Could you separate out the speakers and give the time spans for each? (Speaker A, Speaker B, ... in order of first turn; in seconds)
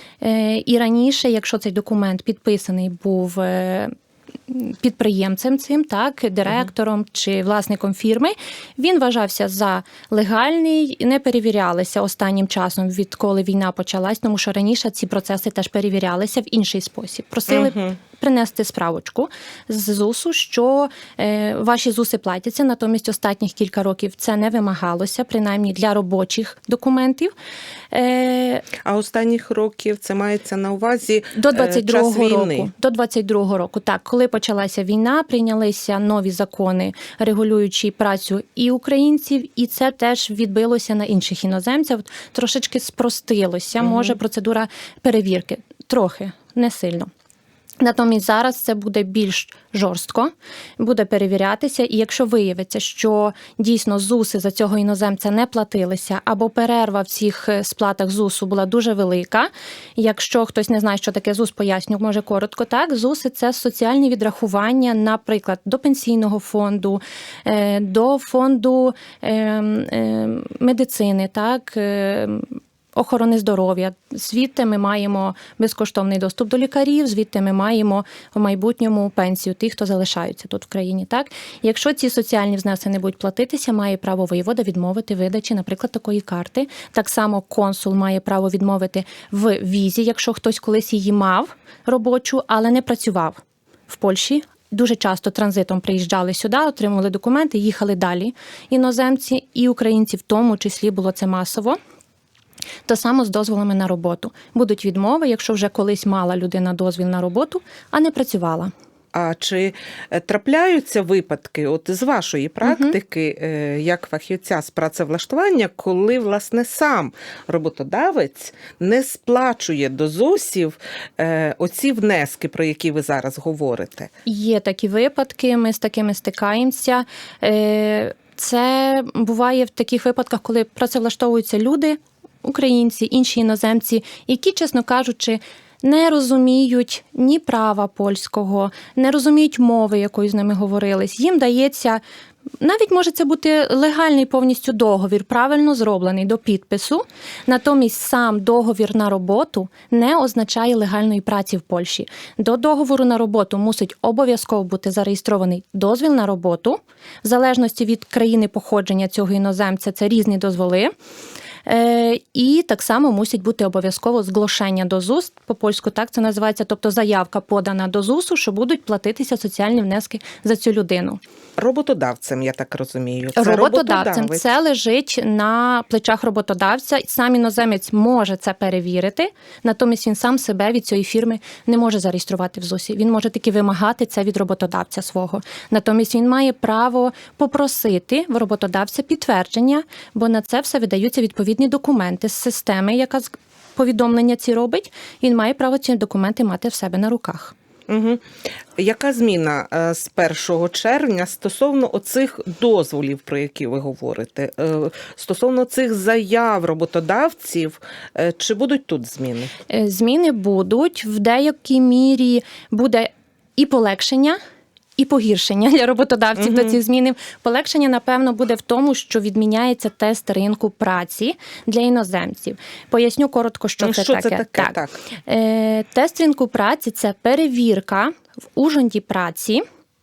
Speaker A: 0.2-3.9, 4.5-27.3, 27.9-28.6, 31.3-47.1, 47.8-101.8, 102.9-108.7, 112.6-112.9, 124.2-142.0, 142.6-160.9, 161.7-171.2, 173.3-197.5, 209.7-214.4, 215.0-229.6
Speaker B: 17.5-17.9, 28.8-32.7, 43.8-44.2, 109.1-124.1, 171.6-174.5, 197.9-198.2, 198.8-209.5, 216.4-216.7, 223.8-225.0